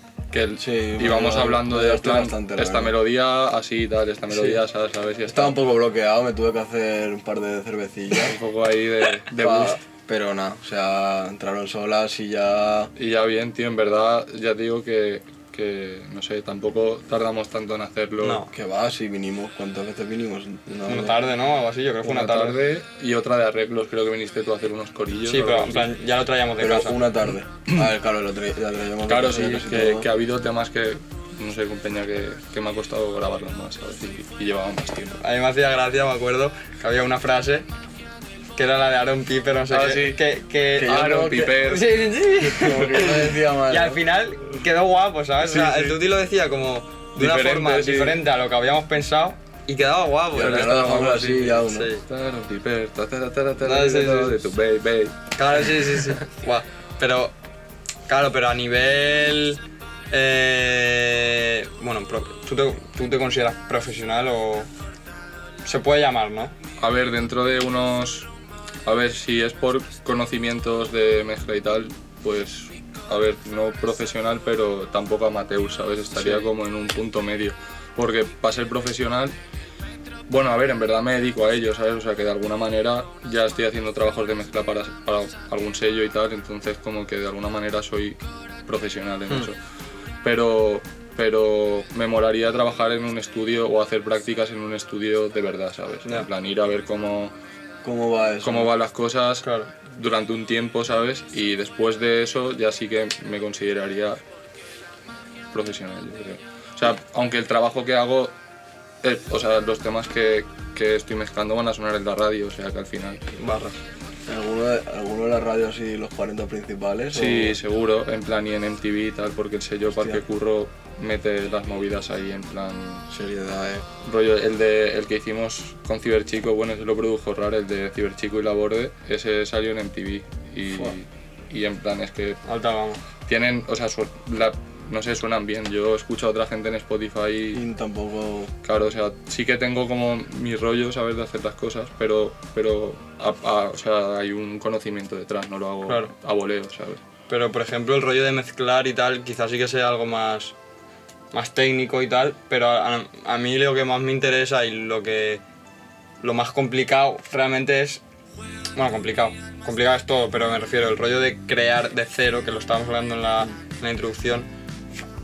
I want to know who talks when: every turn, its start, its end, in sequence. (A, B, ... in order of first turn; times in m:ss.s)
0:00.3-0:05.6 A
0:00.6-0:03.0 B
0:05.3-0:08.4 B
0:08.2-0:09.8 A
0:09.4-0:12.9 B
0:13.0-0:18.4 A
0:18.2-0:18.5 C
0:18.5-0:21.2 B
0:20.9-0:22.6 C
0:22.0-0:26.0 A
0:25.3-0:27.0 C
0:26.6-0:30.1 B
0:29.1-0:35.2 A
0:35.2-0:37.7 C
0:38.6-0:50.8 C
0:39.7-0:40.2 A
0:40.8-0:41.6 B
0:40.8-0:42.0 A
0:42.4-0:44.0 B
0:45.4-0:46.0 A
0:47.2-0:48.2 A
0:50.3-0:51.9 B
0:50.4-0:55.2 A
0:51.7-0:52.0 C
0:53.6-0:54.4 C
0:55.4-0:57.4 C
0:58.1-1:04.7 C
1:05.6-1:06.5 C
1:06.8-1:08.3 A
1:08.8-1:19.4 A
1:20.3-1:29.6 A
1:30.2-1:37.3 A
1:37.8-1:38.7 B
1:38.4-1:44.2 A
1:39.4-1:39.7 C
1:45.5-1:48.3 A
1:49.0-1:53.2 A
1:53.4-1:53.8 C
1:54.3-1:57.6 B
1:57.1-2:03.1 A
2:03.1-2:03.8 B
2:04.0-2:12.4 A
2:10.7-2:11.0 B
2:12.5-2:13.0 C
2:13.3-2:17.6 A
2:17.5-2:18.5 B
2:18.6-2:27.0 A
2:25.9-2:26.1 C
2:27.3-2:30.6 C
2:31.3-2:35.4 C
2:36.2-2:38.0 C
2:38.8-2:44.5 C